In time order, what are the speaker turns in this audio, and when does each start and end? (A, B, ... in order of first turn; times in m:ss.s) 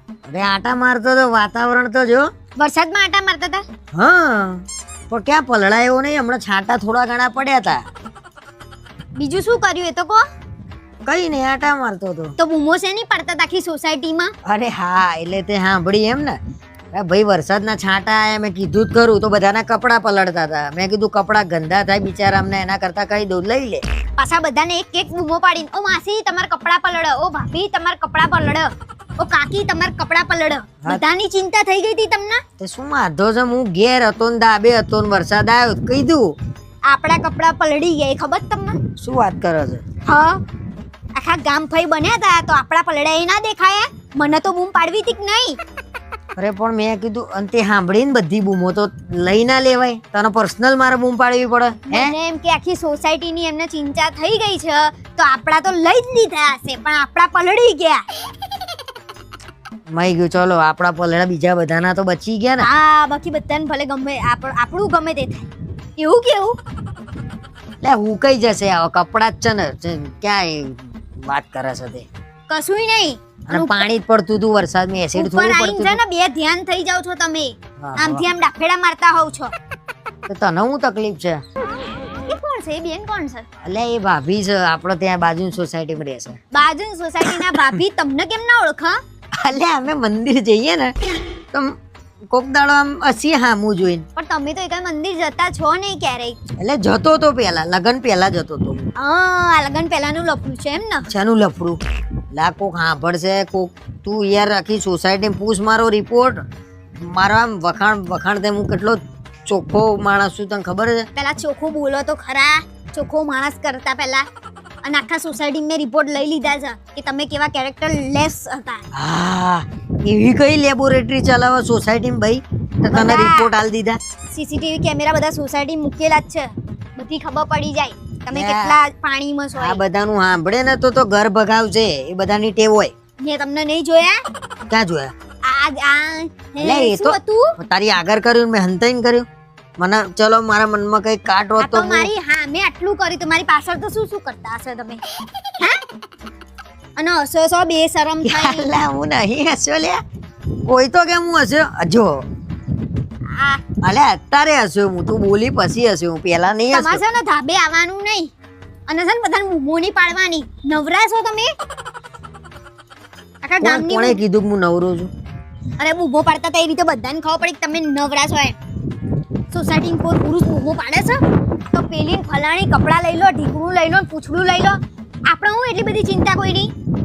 0:00.3-0:02.3 A
0:02.6-0:03.6 B
0:03.9-0:07.8 A
0:09.2-0:10.2 B
0:11.0-0:12.3 A
0:12.4-0:14.3 B
0:14.4-0:16.4 A
0:16.9-0:23.8 A
0:24.2-0:32.4 B
0:32.6-0:36.3 A
0:36.9-0:38.8 B
0:39.0-0:39.8 A
0:40.0-0:40.4 B
0:41.1-0:45.6 B
0:46.4-0:52.1 A
0:51.9-0:58.0 B
0:59.9-1:02.7 A
1:02.6-1:06.6 B
1:07.8-1:12.1 A
1:12.5-1:13.9 B
1:13.5-1:16.0 A
1:15.1-1:19.5 B
1:17.8-1:18.2 A
1:20.3-1:21.4 A
1:22.2-1:23.4 B
1:23.6-1:26.4 A
1:26.5-1:29.0 B
1:27.2-1:27.8 A
1:29.4-1:30.9 A
1:32.3-1:34.0 A
1:34.2-1:36.4 B
1:36.6-1:38.9 A
1:39.0-1:41.1 B
1:41.1-1:41.8 A
1:42.3-1:46.4 A
1:47.0-1:51.0 A
1:51.1-1:54.2 B
1:54.8-1:58.9 B
1:58.9-2:04.0 A
2:02.9-2:03.5 B
2:04.3-2:09.8 B
2:08.3-2:08.8 A
2:09.6-2:12.9 A
2:13.2-2:14.2 B
2:14.7-2:15.1 A
2:15.4-2:17.6 B
2:16.6-2:19.2 A
2:19.8-2:22.1 A
2:21.6-2:25.0 B
2:25.6-2:25.8 B
2:27.0-2:28.7 B
2:28.2-2:30.0 A
2:30.6-2:32.2 A
2:33.3-2:33.6 B
2:33.8-2:37.0 A
2:36.7-2:38.3 B
2:38.9-2:41.5 B
2:43.4-2:44.2 B
2:43.6-2:45.1 A
2:45.8-2:48.6 B
2:49.5-2:56.7 B